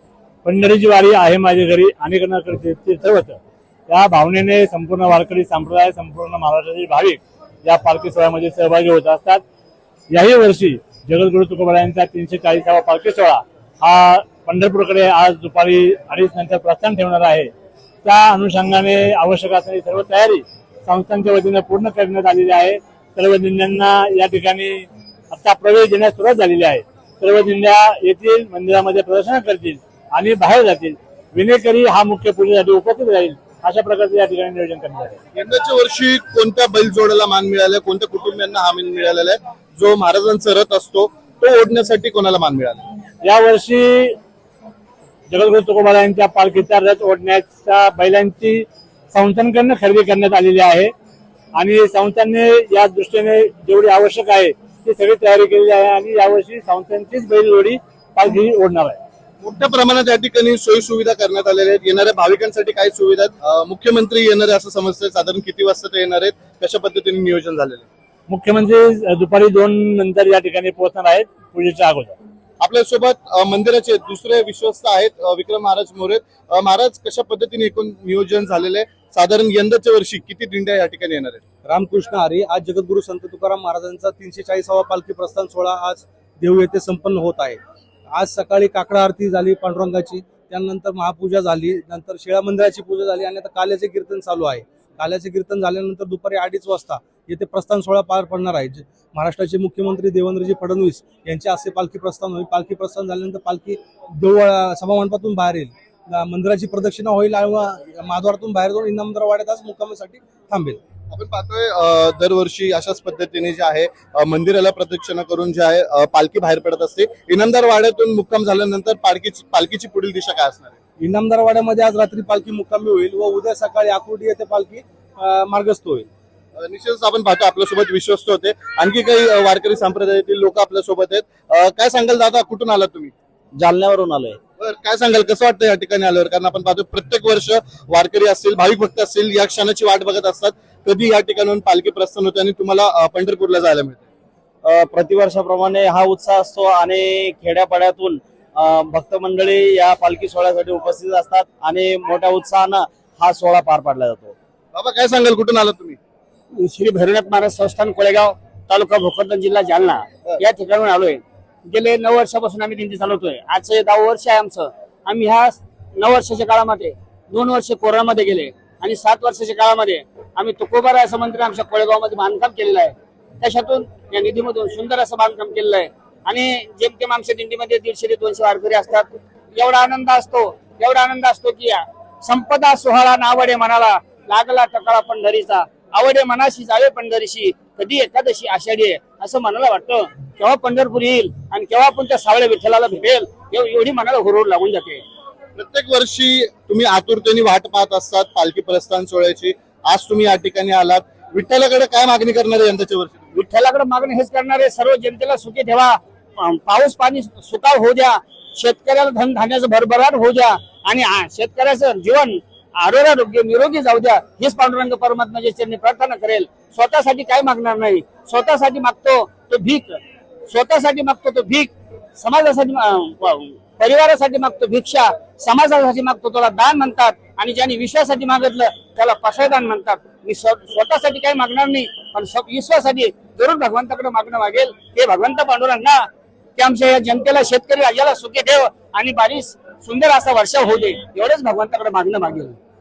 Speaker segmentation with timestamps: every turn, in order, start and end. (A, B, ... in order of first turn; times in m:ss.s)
0:00.4-0:09.4 A
0:10.1-0:17.5 A
0:18.0-0:35.2 A
0:35.3-0:42.9 B
0:43.2-0:44.2 A
0:45.3-0:50.9 A
0:51.6-0:59.0 A
0:59.4-1:07.9 B
1:08.3-1:12.2 A
1:12.6-1:21.4 B
1:21.6-1:27.6 C
1:28.1-1:50.8 C
1:51.1-2:00.8 B
2:01.0-2:06.1 C
2:06.6-2:13.1 B
2:13.6-2:14.4 D
2:14.6-2:24.1 B
2:24.6-2:34.4 D
2:34.7-2:36.0 B
2:36.6-3:15.0 E
3:15.6-3:23.2 B
3:23.3-4:02.6 E